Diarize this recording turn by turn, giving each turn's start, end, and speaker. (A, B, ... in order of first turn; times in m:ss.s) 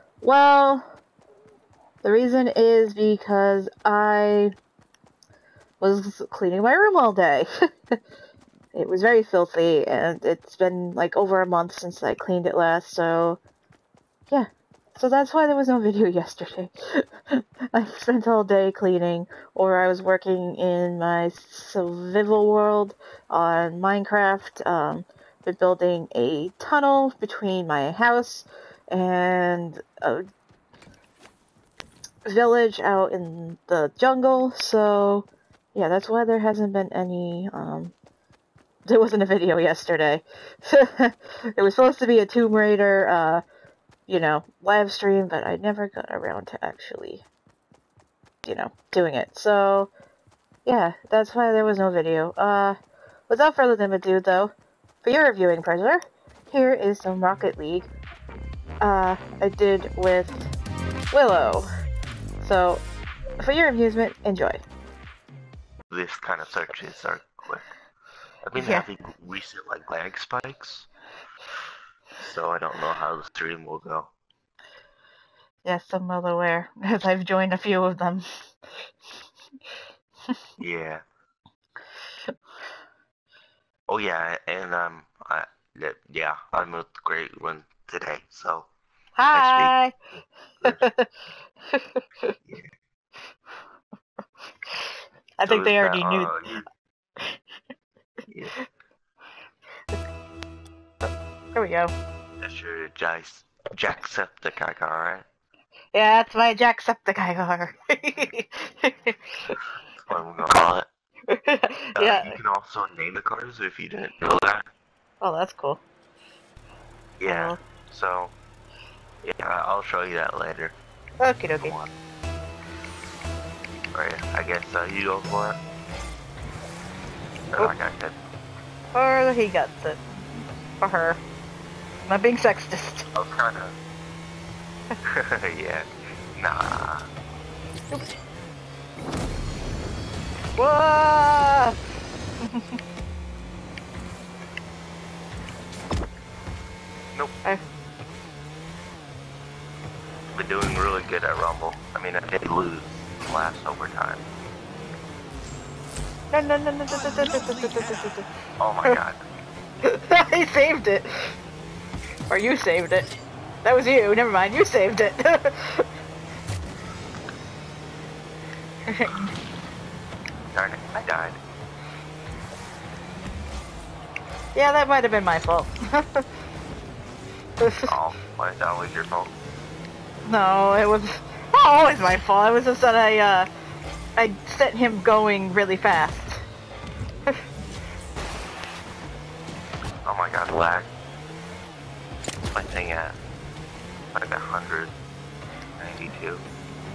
0:00.2-0:00.9 A
0:02.0-0:04.5 A
0:05.8-0:07.5 A
0:08.7-0:13.4 A
0:14.3-0:30.2 A
0:32.2-0:37.9 A
0:38.9-0:43.4 A
0:44.1-0:47.2 A
0:48.4-0:49.9 A
0:50.6-0:52.8 A
0:53.3-0:54.5 A
0:55.0-0:57.9 A
0:58.8-1:00.5 A
1:01.1-1:01.7 A
1:02.4-1:02.8 A
1:03.4-1:04.6 A
1:05.9-1:07.6 B
1:08.4-1:10.9 B
1:08.5-1:08.9 A
1:12.2-1:14.1 B
1:15.6-1:18.2 A
1:20.6-1:21.0 B
1:23.9-1:28.7 B
1:29.2-1:29.9 A
1:29.3-1:29.7 B
1:30.6-1:31.1 A
1:31.7-1:32.3 A
1:34.7-1:36.3 A
1:35.4-1:36.7 B
1:38.3-1:38.5 B
1:41.5-1:41.9 A
1:42.4-1:45.2 B
1:45.9-1:49.6 A
1:50.0-1:50.8 B
1:51.3-1:52.4 A
1:52.0-1:54.6 B
1:55.2-1:55.8 A
1:57.2-1:58.3 B
1:57.3-1:57.6 A
1:59.2-2:00.8 B
2:01.2-2:01.8 A
2:01.6-2:01.9 B
2:03.9-2:05.6 B
2:07.5-2:08.2 B
2:08.9-2:11.2 A
2:12.1-2:13.1 A
2:13.1-2:13.7 B
2:15.1-2:17.1 B
2:20.6-2:21.8 A
2:22.4-2:22.8 A
2:30.3-2:34.2 B
2:36.3-2:38.2 A
2:38.6-2:39.2 B
2:39.8-2:41.4 A
2:42.3-2:43.1 A
2:43.6-2:45.8 A
2:48.9-2:49.3 A
2:50.5-2:51.4 B
2:54.5-2:56.2 A
2:57.6-2:57.9 A
2:57.8-2:59.3 B
3:00.2-3:03.5 A
3:04.2-3:06.4 A
3:10.0-3:10.9 B
3:12.5-3:13.2 B
3:14.1-3:14.9 B
3:15.8-3:16.4 B